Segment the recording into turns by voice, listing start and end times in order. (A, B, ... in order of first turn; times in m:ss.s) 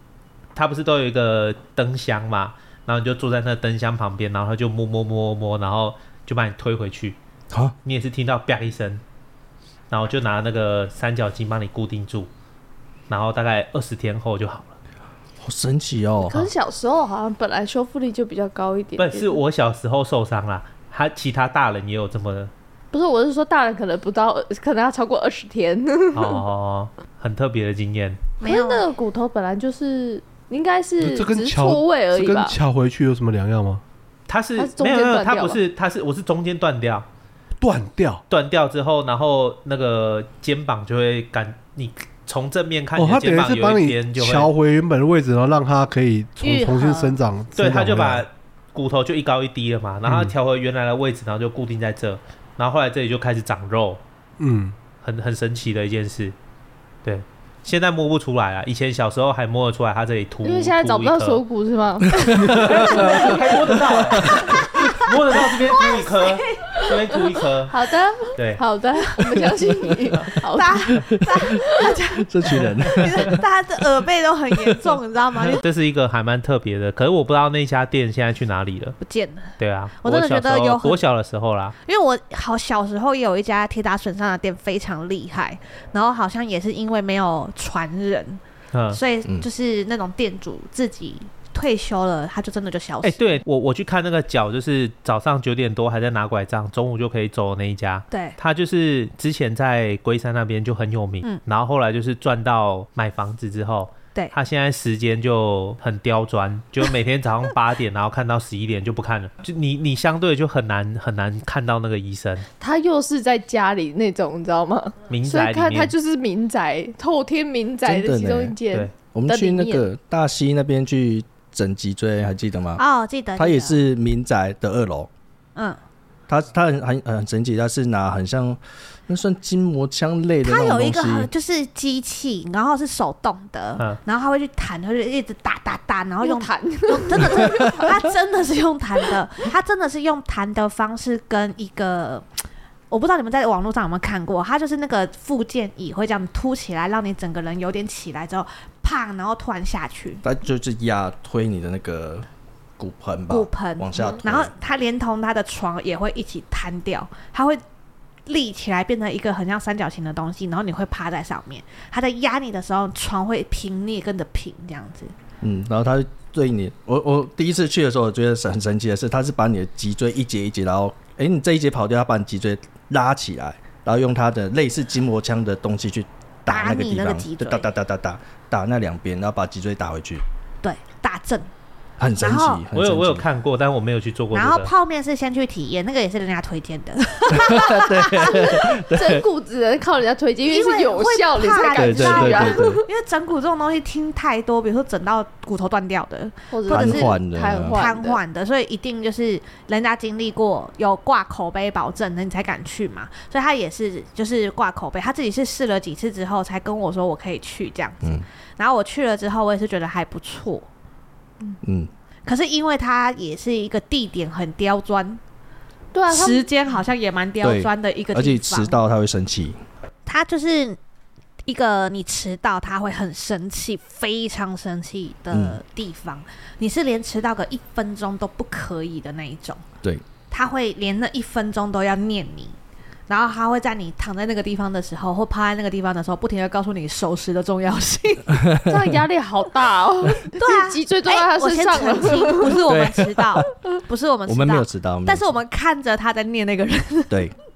0:00.5-0:07.2 A
0:07.8-0:09.0 A
0:09.9-0:12.3 A
0:13.1-0:14.8 A
0:15.4-0:16.4 B
0:16.2-0:19.4 C
0:19.0-0:22.5 A
0:22.9-0:26.4 C
0:26.1-0:28.2 A
0:28.4-0:28.8 D
0:28.4-0:32.6 C
0:31.0-0:33.8 E
0:34.3-0:37.0 A
0:34.6-0:35.6 C
0:37.6-0:38.2 E
0:38.3-0:44.5 A
0:42.9-0:48.2 E
0:46.4-0:47.2 D
0:47.5-0:54.0 A
0:50.0-0:50.3 E
0:54.4-0:54.7 E
0:55.0-0:56.4 A
0:57.0-1:01.4 A
1:00.4-1:02.5 C
1:02.2-1:02.6 B
1:02.2-1:07.7 A
1:04.2-1:06.9 D
1:07.7-1:11.8 C
1:08.3-1:08.6 A
1:10.4-1:15.6 D
1:12.1-1:13.4 B
1:15.6-1:19.0 A
1:19.0-1:21.0 D
1:19.6-1:21.7 A
1:21.8-1:33.4 D
1:28.7-1:29.0 A
1:33.0-1:52.5 A
1:38.1-1:38.4 D
1:52.6-1:59.9 C
1:55.1-1:55.9 A
1:57.8-1:58.6 B
1:59.1-2:02.8 B
2:02.8-2:03.8 D
2:03.4-2:05.1 B
2:06.3-2:11.3 B
2:10.4-2:30.2 D
2:16.2-2:17.9 C
2:30.2-2:32.2 B
2:32.8-2:34.5 B
2:33.3-2:37.6 D
2:38.2-2:45.1 D
2:45.4-3:00.2 B
2:56.5-2:57.7 D
3:00.6-3:01.5 D
3:02.0-3:03.2 B
3:02.2-3:02.7 D
3:02.7-3:04.7 A
3:04.3-3:08.7 D
3:07.3-3:09.2 B
3:08.4-3:12.8 C
3:10.5-3:17.2 D
3:11.8-3:12.8 B
3:16.5-3:18.2 C
3:16.7-3:17.8 B
3:17.7-3:30.7 D
3:31.6-3:31.9 B
3:32.2-3:35.2 D
3:35.9-3:36.5 C
3:36.1-3:38.8 D
3:37.4-3:39.6 B
3:40.0-3:40.8 D
3:41.4-3:49.6 D
3:45.3-3:45.6 B
3:50.3-3:52.6 D
3:53.1-3:58.4 D
3:58.4-3:58.7 B
3:58.6-4:02.6 C
4:00.3-4:07.3 D
4:02.6-4:03.5 B
4:04.3-4:05.2 B